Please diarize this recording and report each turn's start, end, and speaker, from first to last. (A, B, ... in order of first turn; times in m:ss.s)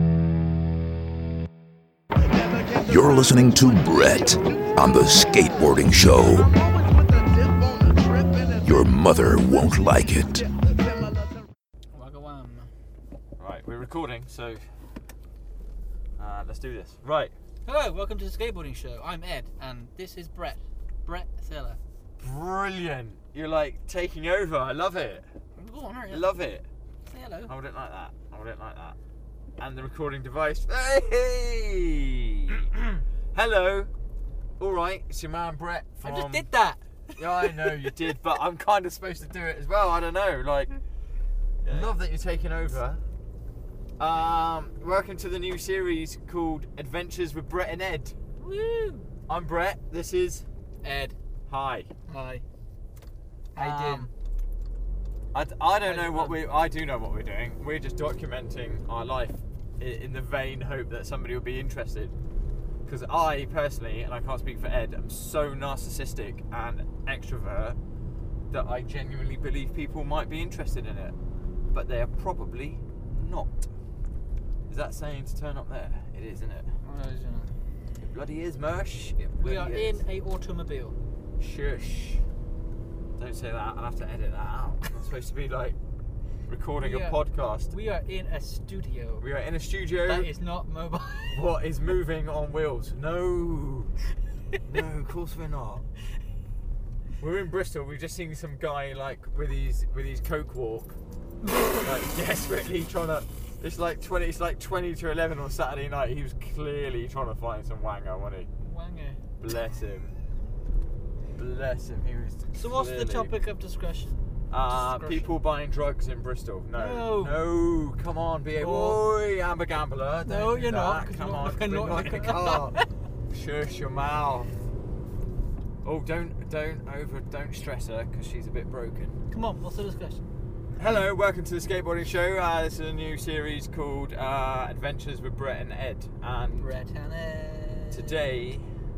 0:02.8-0:06.5 A
0:08.6-0:10.5 A
0:11.9-0:12.7 B
0:13.4-0:14.6 C
0:16.2-0:17.3 C
0:17.7-0:21.8 B
0:22.2-0:25.3 C
0:25.6-0:26.3 B
0:26.1-0:26.7 C
0:27.1-0:27.5 B
0:27.5-0:29.0 C
0:29.6-0:32.7 C
0:33.3-0:33.9 C
0:34.6-0:36.5 C
0:36.0-0:38.0 B
0:37.2-0:40.8 C
0:41.6-0:43.0 C
0:44.0-0:48.2 C
0:48.4-0:49.1 B
0:49.3-0:50.5 C
0:50.8-0:51.2 B
0:51.5-0:51.9 C
0:52.1-0:52.4 B
0:53.6-0:54.1 B
0:53.6-0:54.1 C
0:55.3-1:02.2 C
0:55.8-0:56.4 B
1:02.9-1:07.8 C
1:08.5-1:11.2 C
1:11.7-1:13.7 C
1:14.7-1:16.8 C
1:16.8-1:17.5 B
1:18.0-1:20.0 C
1:19.4-1:21.0 B
1:21.4-1:22.3 C
1:23.2-1:25.8 C
1:26.5-1:27.7 C
1:26.8-1:29.3 B
1:29.2-1:30.3 C
1:30.0-1:31.5 B
1:31.3-1:34.0 C
1:34.7-1:35.9 C
1:37.2-1:41.0 C
1:41.8-1:48.5 C
1:48.6-1:49.2 B
1:49.4-1:50.1 C
1:51.4-1:53.3 C
1:52.5-1:55.3 B
1:54.5-2:04.5 C
1:56.8-1:57.4 B
1:58.6-1:59.0 B
2:00.2-2:02.9 B
2:05.8-2:09.2 C
2:09.3-2:10.3 B
2:10.8-2:16.7 C
2:16.6-2:18.3 B
2:17.9-2:18.7 C